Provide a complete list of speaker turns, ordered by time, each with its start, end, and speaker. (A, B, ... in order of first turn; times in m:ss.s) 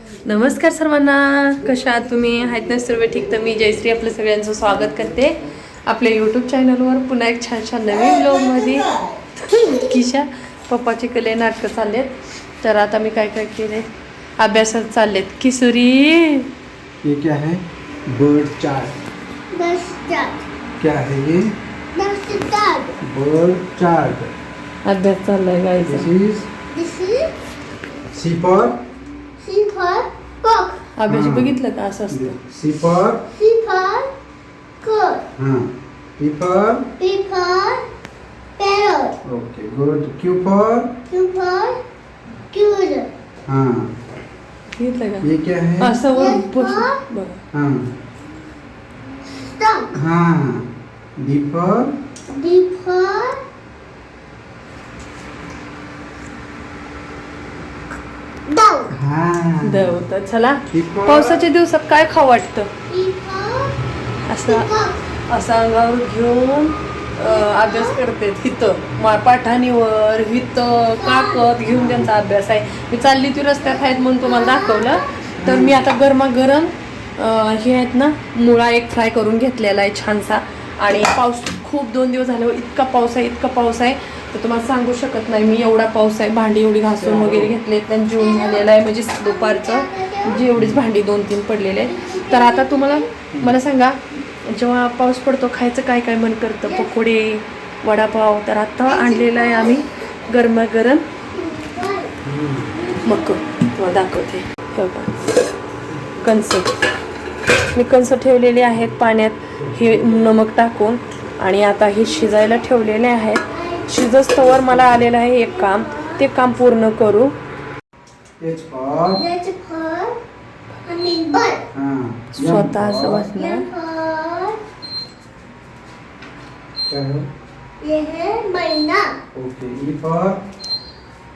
0:00.2-0:13.9 A
0:07.9-0:10.0 B
0:14.4-0:16.5 A
0:17.0-0:18.9 C
0:19.5-0:20.4 B
0:20.8-0:21.5 C
0:21.9-0:23.0 B
0:23.0-0:24.3 C
0:24.8-0:26.1 A
0:25.9-0:26.5 C
0:26.7-0:27.3 B
0:28.1-0:28.8 C
0:29.4-0:30.8 B
0:31.0-0:32.4 A
0:31.1-0:31.5 C
0:32.1-0:33.2 C
0:33.3-0:34.1 B
0:34.8-0:35.2 B
0:35.4-0:36.9 C
0:37.0-0:37.8 B
0:38.6-0:39.2 B
0:39.2-0:40.9 C
0:41.1-0:41.8 B
0:42.5-0:43.1 B
0:43.5-0:44.0 C
0:44.7-0:45.3 A
0:45.2-0:46.1 C
0:45.8-0:47.4 A
0:46.1-0:47.0 B
0:47.5-0:47.9 C
0:49.3-0:49.9 B
0:49.9-0:51.9 C
0:52.3-0:53.4 B
0:58.5-0:58.9 B
0:58.9-1:00.0 C
0:59.6-1:02.7 A
1:00.7-1:01.4 C
1:02.9-1:03.8 B
1:04.3-1:04.7 A
1:04.4-1:05.0 B
1:05.3-1:41.0 A
1:07.2-1:08.0 B
1:11.0-1:11.6 B
1:11.7-1:12.1 C
1:13.6-1:15.3 B
1:15.4-1:15.8 C
1:27.0-1:27.5 C
1:28.2-1:30.5 B
1:30.6-1:30.8 C
1:31.7-1:33.1 B
1:36.6-1:36.9 B
1:38.8-1:39.9 B
1:41.3-1:42.2 B
1:42.2-1:42.7 C
1:42.7-1:43.6 B
1:43.0-1:45.1 A
1:46.2-1:46.8 A
1:47.7-1:57.3 A
1:49.7-1:50.0 C
1:53.5-1:54.0 B
1:54.4-1:55.1 C
1:55.4-1:56.2 B
1:58.4-1:59.2 C
1:59.1-2:00.2 B
2:00.8-2:01.6 B
2:01.7-2:03.4 C
2:02.3-2:03.6 A
2:03.3-2:04.6 B
2:06.9-2:07.3 C
2:07.8-2:09.1 B
2:09.3-2:10.4 C